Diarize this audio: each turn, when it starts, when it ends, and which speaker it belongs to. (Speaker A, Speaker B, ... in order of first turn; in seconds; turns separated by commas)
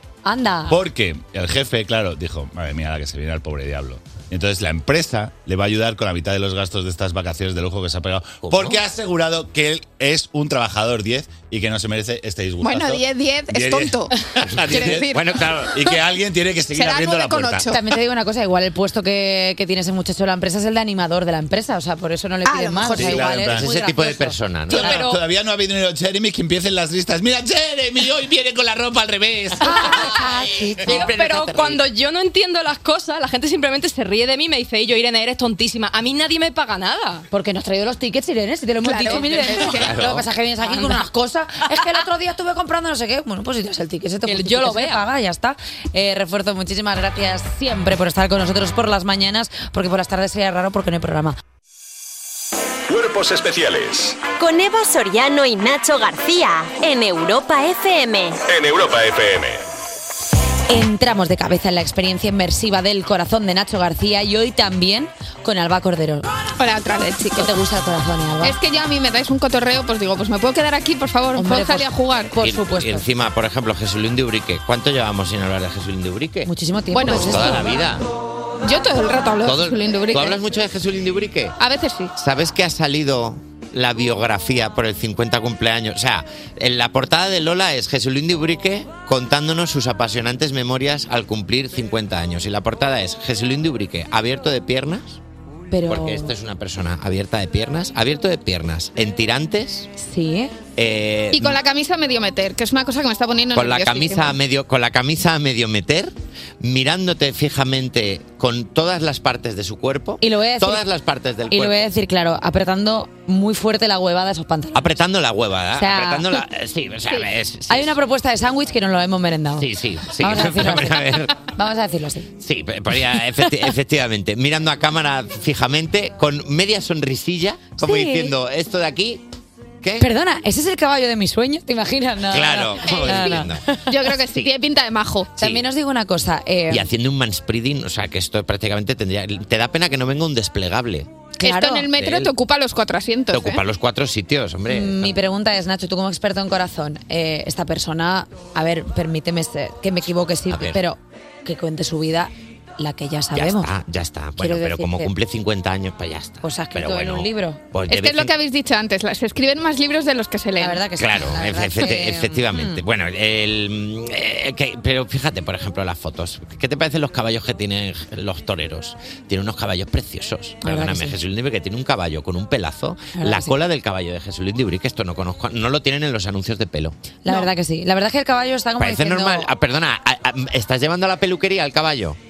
Speaker A: 0.2-0.8, Speaker B: 0.7-15.1, Speaker C: 8.4-8.8, Speaker D: 12.6-14.1, Speaker C: 14.5-15.8, Speaker D: 14.7-15.7, Speaker B: 15.7-17.7, Speaker D: 16.7-17.8, Speaker A: 17.7-25.1, Speaker D: 22.4-23.4, Speaker B: 23.0-23.6, Speaker C: 23.5-25.0, Speaker B: 24.7-29.9, Speaker E: 24.8-25.1, Speaker C: 30.1-31.8, Speaker E: 30.9-37.3, Speaker A: 37.3-51.4, Speaker D: 38.8-40.0, Speaker C: 39.6-40.3, Speaker E: 44.3-45.0, Speaker F: 52.9-54.2, Speaker G: 54.4-58.4, Speaker F: 58.5-59.6, Speaker A: 60.7-66.3, Speaker D: 66.6-67.5, Speaker A: 67.4-68.6, Speaker D: 68.4-72.3, Speaker A: 71.3-73.0, Speaker C: 72.4-76.5, Speaker A: 76.5-77.7, Speaker D: 76.9-77.6, Speaker C: 77.0-78.0, Speaker D: 78.6-80.4, Speaker C: 79.4-81.6, Speaker D: 81.6-82.1, Speaker C: 82.2-95.2, Speaker A: 95.7-96.3, Speaker C: 95.9-99.9, Speaker A: 100.0-100.5, Speaker C: 100.8-101.6, Speaker D: 101.3-104.4, Speaker C: 103.5-111.9, Speaker A: 110.2-110.8, Speaker A: 111.5-114.9, Speaker C: 114.8-118.0, Speaker A: 115.8-116.4, Speaker A: 117.7-119.7, Speaker C: 119.6-121.4, Speaker A: 120.2-122.3, Speaker C: 122.4-129.2, Speaker A: 127.8-128.3, Speaker C: 129.8-130.1, Speaker A: 130.0-133.9, Speaker C: 132.3-133.6, Speaker D: 132.9-133.3, Speaker D: 133.9-135.3, Speaker A: 135.4-136.9, Speaker C: 136.7-141.1, Speaker A: 141.4-141.9, Speaker D: 141.4-143.6, Speaker C: 141.9-142.3, Speaker C: 143.3-145.2, Speaker A: 144.7-153.7, Speaker C: 150.5-150.8, Speaker C: 153.3-158.3, Speaker A: 154.4-155.1, Speaker A: 156.4-157.6, Speaker D: 157.9-160.9, Speaker A: 160.6-162.8, Speaker C: 161.0-176.9, Speaker A: 170.6-171.2, Speaker A: 173.1-173.6, Speaker A: 177.2-179.5, Speaker C: 178.8-182.2